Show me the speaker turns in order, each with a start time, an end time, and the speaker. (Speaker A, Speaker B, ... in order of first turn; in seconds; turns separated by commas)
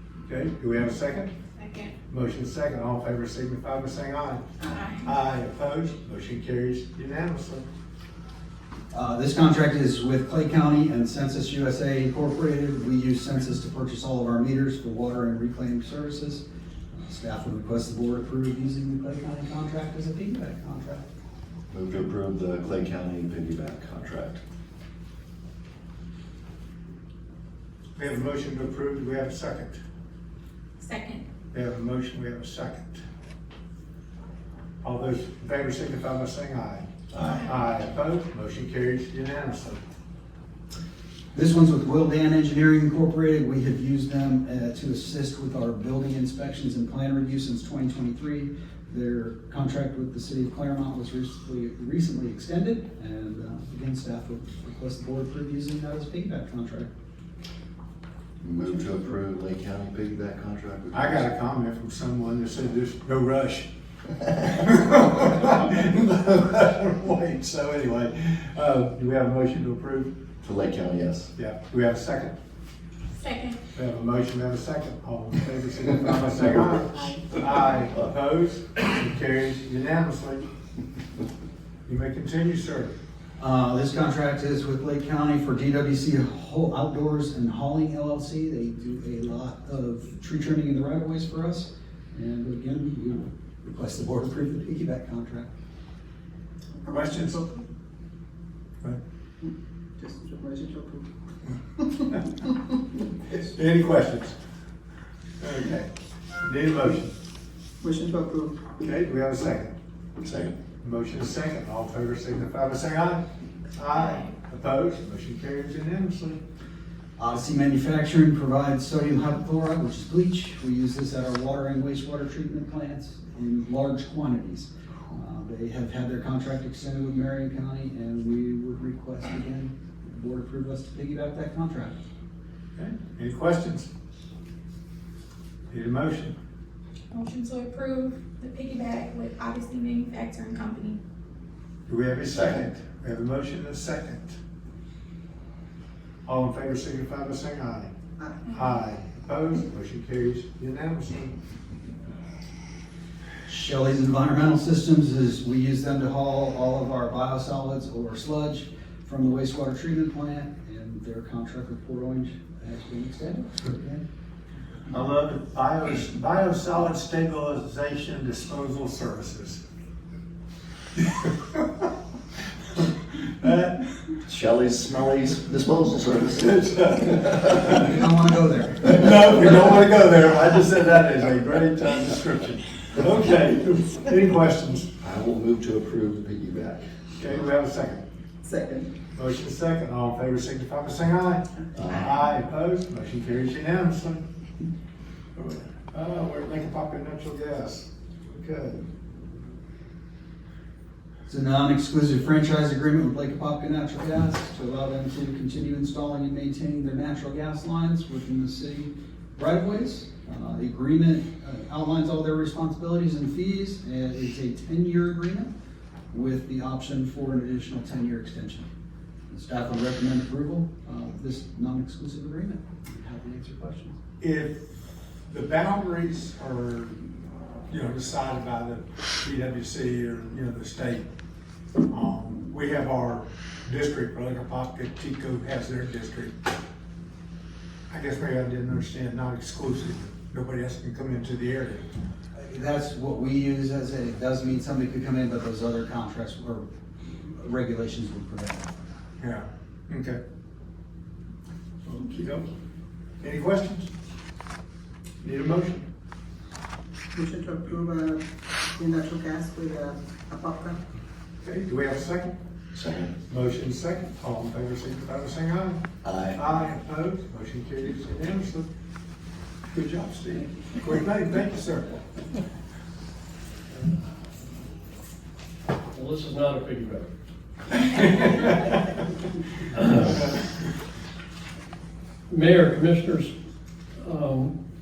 Speaker A: 0.3-1.3, Speaker B: 1.6-1.9, Speaker A: 2.1-7.7, Speaker B: 4.7-5.1, Speaker C: 8.9-21.0, Speaker D: 21.7-24.4, Speaker A: 27.9-29.8, Speaker B: 30.8-31.2, Speaker A: 31.5-33.0, Speaker A: 34.8-36.9, Speaker B: 37.2-37.6, Speaker A: 37.4-39.8, Speaker C: 41.3-56.9, Speaker D: 58.4-61.3, Speaker A: 60.9-63.7, Speaker A: 64.4-70.1, Speaker D: 70.4-71.3, Speaker A: 71.3-72.3, Speaker B: 73.2-73.6, Speaker A: 73.7-80.5, Speaker B: 77.0-77.3, Speaker A: 81.8-82.9, Speaker C: 83.4-95.5, Speaker E: 96.8-97.6, Speaker A: 96.9-97.4, Speaker E: 99.4-101.0, Speaker A: 103.3-104.3, Speaker A: 105.4-105.9, Speaker A: 106.4-107.1, Speaker E: 107.8-108.8, Speaker A: 108.8-109.7, Speaker D: 110.2-110.5, Speaker A: 110.8-113.2, Speaker A: 113.7-116.4, Speaker B: 113.9-114.3, Speaker C: 117.2-131.9, Speaker A: 132.8-133.9, Speaker A: 135.7-136.3, Speaker B: 137.1-141.0, Speaker A: 141.9-144.4, Speaker D: 142.3-142.7, Speaker A: 146.2-147.9, Speaker B: 148.5-148.8, Speaker A: 148.5-151.4, Speaker C: 153.4-164.0, Speaker A: 164.9-169.6, Speaker A: 171.0-171.6, Speaker A: 173.1-173.8, Speaker D: 174.3-176.8, Speaker A: 176.6-177.1, Speaker C: 177.7-179.4, Speaker A: 178.9-184.9, Speaker D: 185.0-186.9, Speaker A: 187.2-188.0, Speaker E: 188.4-188.9, Speaker A: 189.1-194.2, Speaker D: 191.8-192.2, Speaker A: 195.4-198.9, Speaker C: 201.3-215.5, Speaker C: 216.1-218.7, Speaker C: 219.3-224.0, Speaker A: 224.2-224.6, Speaker A: 225.3-227.0, Speaker A: 227.7-231.1, Speaker A: 231.9-236.3, Speaker A: 237.9-241.8, Speaker C: 242.3-246.7, Speaker C: 247.2-248.7, Speaker A: 249.2-250.2, Speaker A: 251.9-252.5, Speaker A: 253.2-253.9, Speaker A: 255.2-255.8, Speaker E: 257.1-260.8, Speaker A: 261.4-262.4, Speaker D: 262.7-263.1, Speaker A: 263.3-268.7, Speaker D: 266.0-266.4, Speaker A: 269.7-271.9, Speaker F: 275.9-277.1, Speaker F: 277.7-278.8, Speaker F: 279.7-280.3, Speaker F: 282.3-283.3, Speaker F: 284.0-284.5